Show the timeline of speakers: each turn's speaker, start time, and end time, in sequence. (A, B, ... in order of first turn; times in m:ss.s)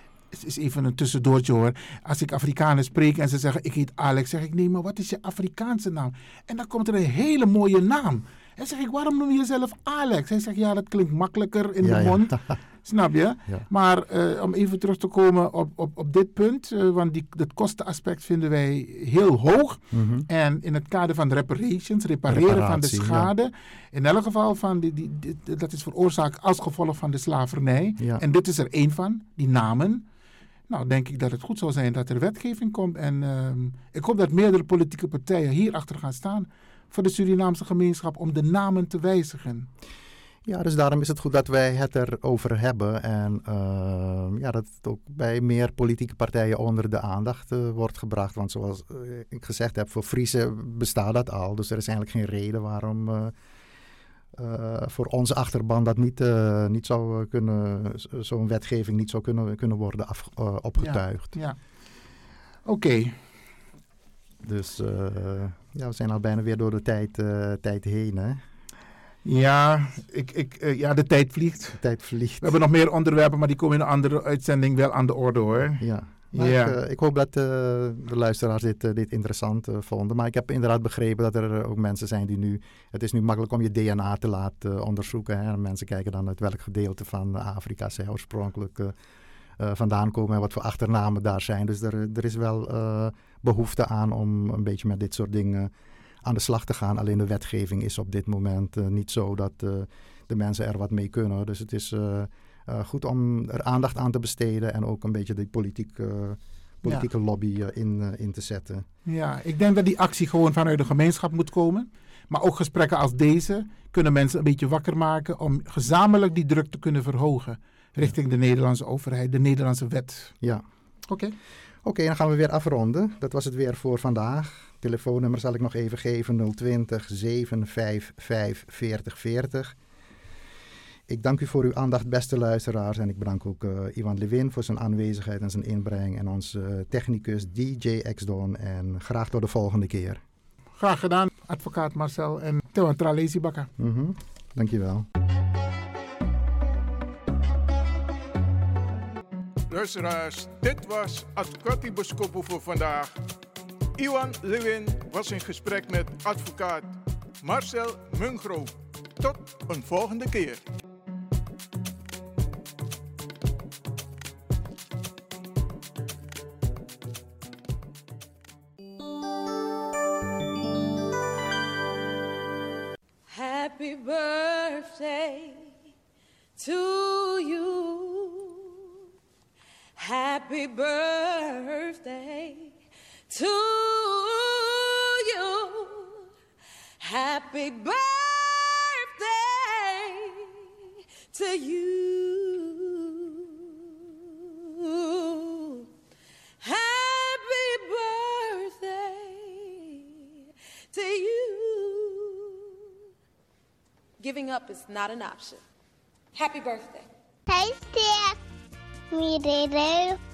0:00.3-0:30.0 A
0:11.8-0:12.6 B
0:19.9-0:20.3 B
0:22.3-0:23.3 B
0:30.7-0:39.7 A
0:40.4-0:53.3 B
0:54.3-1:01.4 B
1:00.8-1:01.6 A
1:02.6-1:03.2 A
1:04.4-1:08.4 B
1:09.2-1:11.8 A
1:11.8-1:12.6 B
1:12.4-1:16.8 A
1:15.8-1:28.9 B
1:29.6-1:35.7 B
1:36.2-1:48.9 B
1:49.1-2:00.3 A
2:01.1-2:01.3 A
2:01.8-2:09.8 B
2:11.1-2:20.2 B
2:20.8-2:23.7 A
2:23.8-2:25.1 B
2:29.7-2:33.2 C
2:34.0-2:40.6 C
2:53.3-2:55.7 D
2:56.6-2:58.8 D
3:00.0-3:02.8 D
3:03.3-3:06.2 D
3:07.0-3:10.5 D
3:11.3-3:13.8 D
3:14.6-3:15.9 D
3:16.6-3:20.2 D
3:20.9-3:22.7 D
3:24.2-3:25.6 D
3:26.3-3:27.0 D
3:27.5-3:28.4 E
3:29.1-3:30.2 E